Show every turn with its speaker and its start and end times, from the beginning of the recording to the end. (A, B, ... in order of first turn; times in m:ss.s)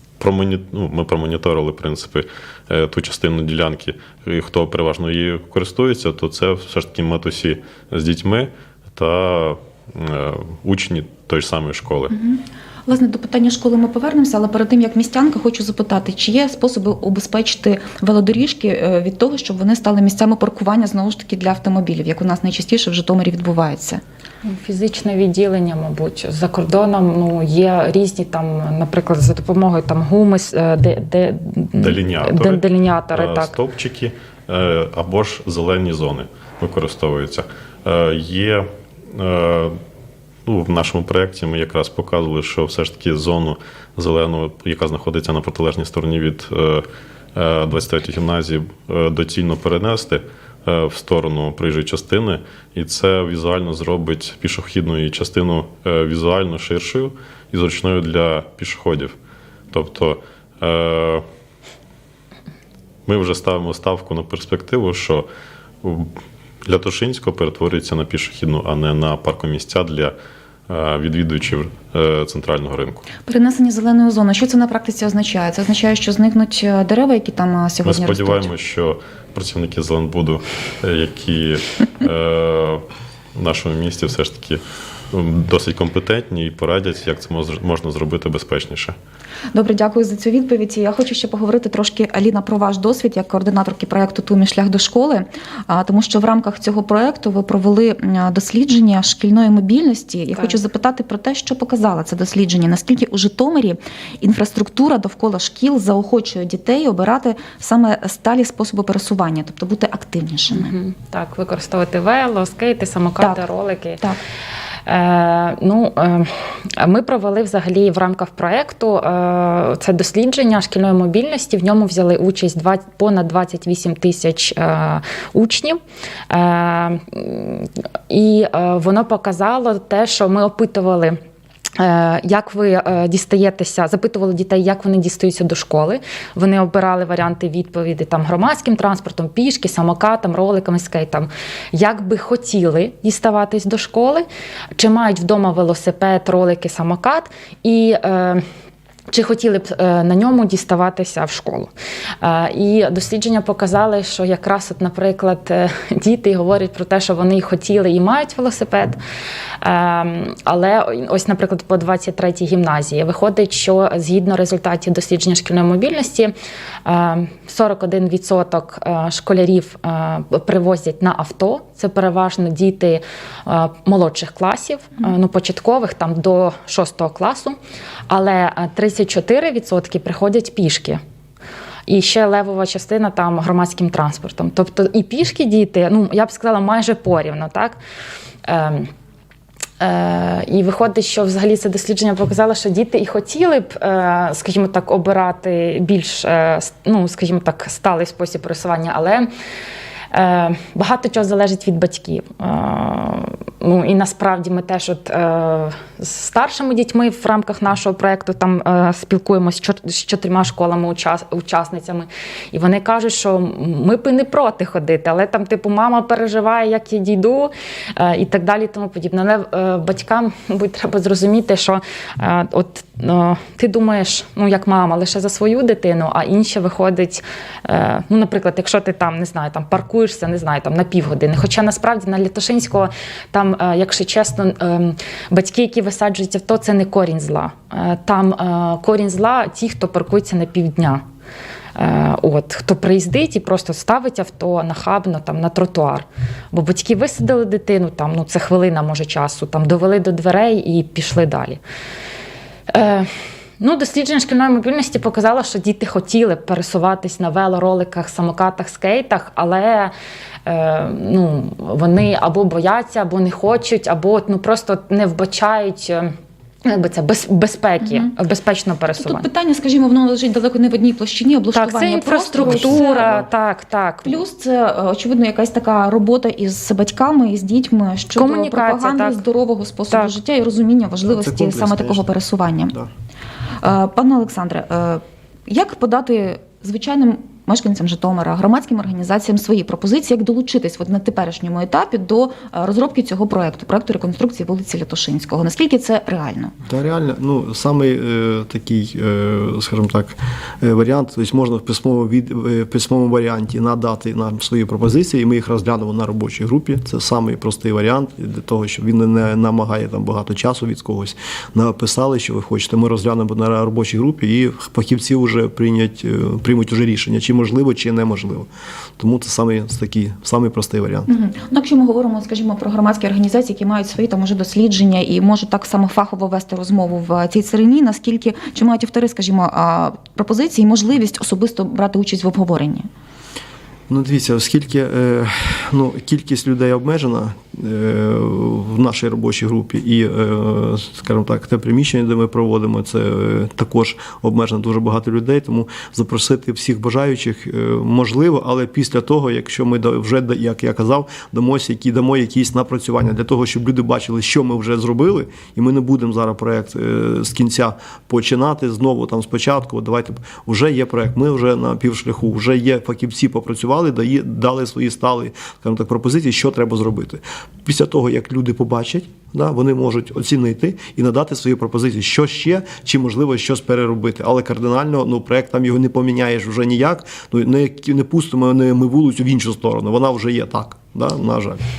0:00.2-0:12.1 A
0:12.1-0:24.0 B
0:24.4-0:33.5 C
0:31.8-0:32.6 A
0:33.1-0:39.8 A
0:40.4-0:59.1 A
0:59.7-1:01.2 A
1:03.0-1:05.2 A
1:05.8-1:06.1 A
1:06.6-1:10.1 A
1:10.7-1:13.0 A
1:13.3-1:18.5 B
1:17.8-1:22.8 A
1:23.4-1:28.9 A
1:29.5-1:50.7 B
1:40.3-1:40.6 C
1:50.5-1:54.0 C
1:54.8-2:11.2 C
2:11.8-2:24.2 C
2:24.8-2:28.4 C
2:29.1-2:31.7 C
2:32.2-2:39.0 C
2:39.6-2:46.3 C
2:46.8-2:57.6 C
2:58.1-3:01.0 C
3:01.9-3:07.8 C
3:08.4-3:08.9 C
3:09.8-3:19.3 C
3:20.1-4:01.0 C
4:01.8-4:11.6 C
4:12.7-4:19.9 C
4:20.4-4:26.1 C
4:26.6-4:29.2 C
4:27.8-4:28.1 B
4:29.0-4:33.2 B
4:31.5-4:34.2 C
4:32.4-4:33.2 D
4:34.0-4:42.8 B
4:38.2-4:39.2 C
4:41.1-4:42.1 D
4:43.6-4:56.5 B
4:56.6-5:21.1 D
5:21.1-5:32.9 B
5:33.9-6:21.6 D